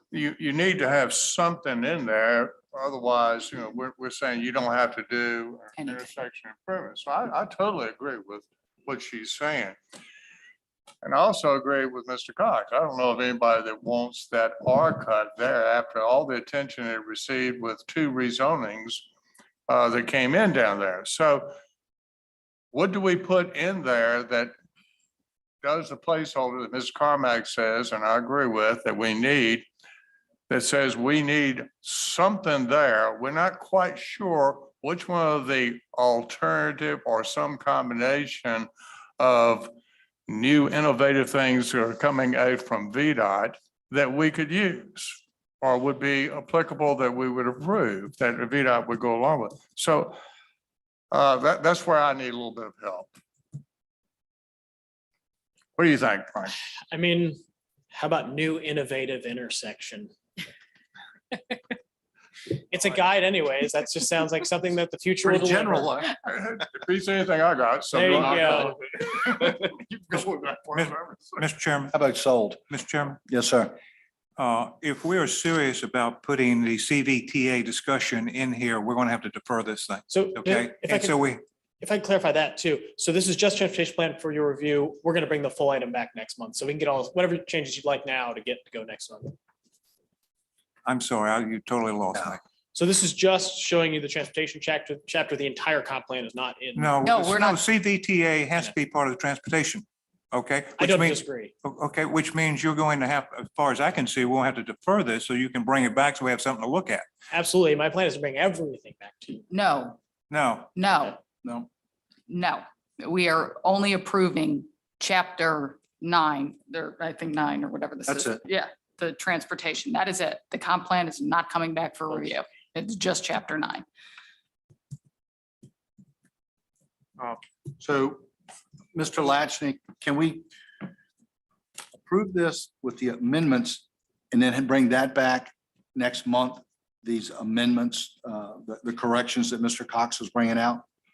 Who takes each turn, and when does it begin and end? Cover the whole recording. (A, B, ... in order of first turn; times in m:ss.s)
0:00.1-0:09.8 A
0:05.8-0:06.1 B
0:11.0-0:19.0 A
0:19.7-0:21.5 A
0:22.7-0:24.5 A
0:25.6-0:29.7 A
0:30.5-0:39.7 A
0:40.3-0:50.2 A
0:51.1-0:53.1 A
0:55.8-0:56.5 A
0:56.9-0:57.4 C
0:57.9-1:00.1 C
1:01.3-1:01.6 C
1:02.7-1:05.9 C
1:05.5-1:06.1 D
1:06.1-1:11.3 A
1:07.9-1:08.8 C
1:10.7-1:12.0 E
1:11.9-1:12.6 D
1:12.7-1:13.2 E
1:13.3-1:13.8 D
1:14.4-1:21.4 E
1:20.1-1:21.2 C
1:21.8-1:29.4 C
1:30.9-1:32.4 E
1:32.7-1:37.0 C
1:36.8-1:47.1 E
1:37.0-1:37.6 B
1:40.8-1:41.5 C
1:47.3-1:49.5 C
1:49.5-1:50.0 B
1:50.3-1:50.7 E
1:50.8-1:51.2 B
1:51.4-1:51.7 D
1:52.3-2:03.8 B
1:58.1-1:58.4 D
2:07.8-2:08.3 D
2:08.9-2:10.5 D
2:12.0-2:20.8 D